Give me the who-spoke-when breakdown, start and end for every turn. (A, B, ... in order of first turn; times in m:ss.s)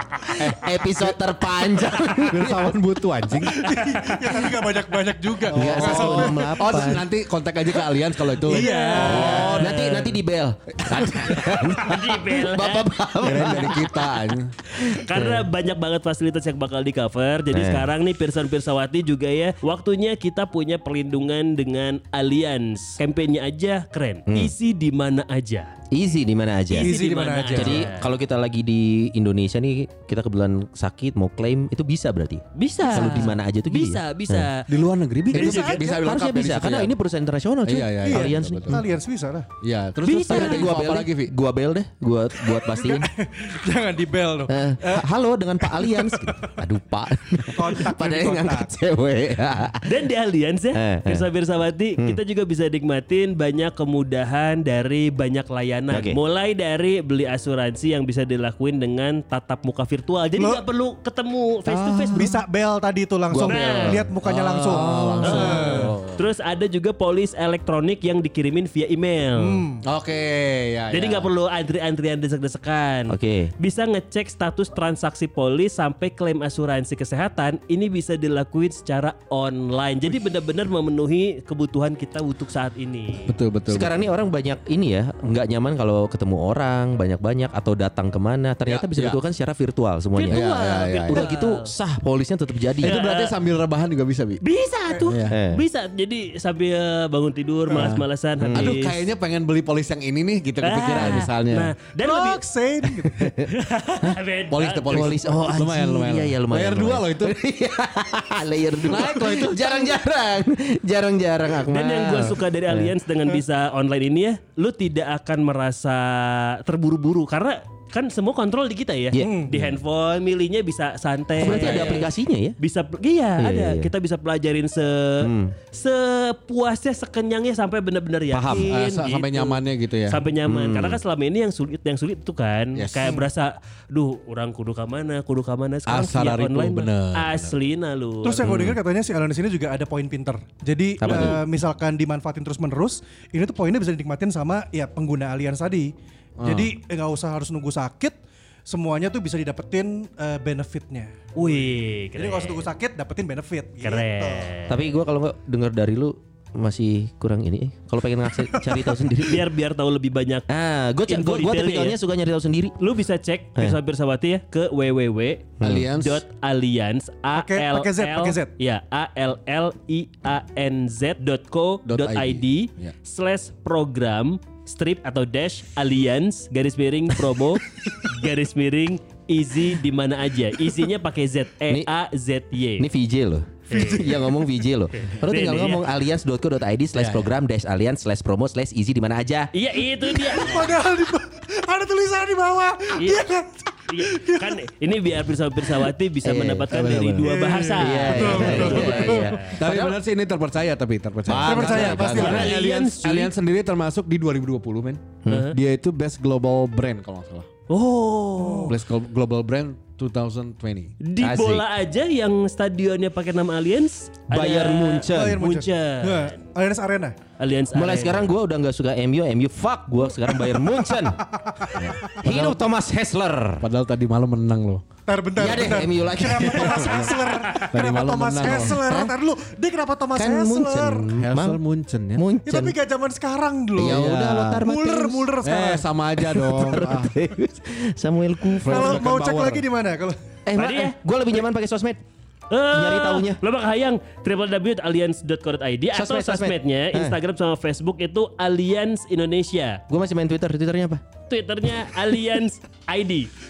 0:00.2-0:02.7 A
0:00.4-0:01.2 B
0:02.3-0:03.6 B
0:03.5-0:06.8 C
0:03.6-0:04.4 D
0:05.5-0:07.0 A
0:05.5-0:09.8 B
0:08.4-0:09.6 C
0:08.5-0:10.1 D
0:09.0-0:15.5 A
0:10.8-0:11.6 B
0:11.4-0:13.6 D
0:13.2-0:14.5 B
0:14.8-0:25.7 D
0:17.5-0:17.9 A
0:25.9-0:26.9 A
0:26.7-0:28.0 D
0:26.7-0:27.9 C
0:27.5-0:34.5 A
0:32.5-0:34.6 D
0:34.6-0:36.9 B
0:35.3-0:35.8 D
0:35.3-0:38.8 A
0:37.6-0:38.8 B
0:38.0-0:39.5 C
0:39.6-0:41.3 B
0:40.0-0:43.1 A
0:40.1-0:40.6 D
0:42.5-0:45.1 C
0:44.5-0:49.9 A
0:45.6-0:46.5 C
0:47.4-0:48.7 C
0:49.8-1:02.2 D
0:50.7-0:51.2 A
0:55.9-0:56.2 A
1:00.4-1:00.6 C
1:01.7-1:02.4 B
1:02.1-1:05.9 C
1:03.3-1:05.5 A
1:03.4-1:04.0 D
1:04.6-1:06.2 B
1:05.3-1:09.6 D
1:09.4-1:09.8 C
1:09.8-1:11.3 B
1:10.9-1:23.3 D
1:13.1-1:13.5 A
1:23.2-1:23.9 B
1:23.7-1:30.5 A
1:28.6-1:29.2 B
1:30.1-1:31.7 D
1:30.3-1:31.3 B
1:31.1-1:33.0 A
1:32.8-1:34.4 B
1:32.8-1:33.3 D
1:34.4-1:39.0 D
1:34.9-1:35.2 C
1:35.0-1:35.4 B
1:35.3-1:35.6 A
1:37.7-1:38.8 A
1:38.5-1:41.7 B
1:40.6-1:42.4 D
1:40.9-1:41.2 A
1:42.0-1:43.4 C
1:43.5-1:45.1 D
1:44.5-1:47.4 B
1:44.8-1:52.9 A
1:48.8-1:49.9 B
1:51.7-2:18.6 D
1:59.1-1:59.7 A
1:59.2-1:59.5 C
2:01.4-2:02.6 A
2:03.4-2:03.9 A
2:05.2-2:05.5 A
2:08.3-2:08.7 A
2:08.5-2:10.2 B
2:10.4-2:11.0 A
2:12.8-2:13.1 B
2:15.9-2:17.5 B
2:18.2-2:28.2 C
2:18.4-2:18.8 A
2:21.0-2:21.4 A
2:21.1-2:21.4 B
2:26.4-2:26.7 B
2:28.7-2:34.6 C
2:31.4-2:32.7 D
2:33.8-2:34.8 D
2:34.7-2:39.4 A
2:38.5-2:39.2 C
2:39.2-2:40.4 D
2:40.5-2:42.8 A
2:41.0-2:42.0 D
2:42.8-3:02.9 D
2:45.6-2:45.9 A
2:45.6-2:46.2 B
2:47.3-2:48.5 C
2:51.8-2:52.9 B
3:02.8-3:09.5 A
3:03.7-3:04.2 D
3:03.7-3:04.3 C
3:04.9-3:05.9 D
3:07.0-3:07.3 B
3:09.5-3:10.7 D
3:10.0-3:14.6 C
3:13.0-3:13.2 D
3:13.9-3:19.9 D
3:16.2-3:16.7 A
3:16.7-3:17.3 B
3:17.2-3:19.6 C
3:17.7-3:19.4 A
3:18.4-3:18.9 B
3:19.6-3:27.5 B
3:21.3-3:22.5 A
3:21.4-3:22.5 C
3:22.1-3:23.3 D
3:25.2-3:25.5 A
3:25.3-3:25.5 D
3:27.7-3:28.7 D
3:28.4-3:28.8 C
3:28.7-3:30.9 B
3:31.0-3:36.5 D
3:31.2-3:31.6 A
3:34.3-3:35.4 A
3:35.1-3:37.2 C
3:37.4-3:38.3 D
3:37.7-3:41.2 A
3:40.3-3:42.0 C
3:41.7-3:42.6 B
3:42.0-3:43.7 A
3:43.6-3:44.8 B
3:45.1-3:51.1 C
3:45.4-3:47.2 A
3:46.4-3:46.9 B
3:47.3-3:47.6 D
3:47.7-3:48.8 B
3:48.4-3:49.1 A
3:50.1-3:51.6 A
3:51.1-3:52.2 B
3:52.1-3:52.8 A
3:52.4-3:55.8 C
3:53.7-3:55.3 A
3:53.8-3:54.6 B
3:55.4-3:57.2 B
3:56.2-3:59.0 A
3:58.6-3:59.7 B
3:58.6-4:00.2 C
4:00.4-4:02.0 A
4:00.5-4:00.9 D
4:02.5-4:09.8 D
4:02.7-4:03.4 A
4:05.9-4:07.2 A
4:09.9-4:11.0 A
4:11.3-4:13.3 D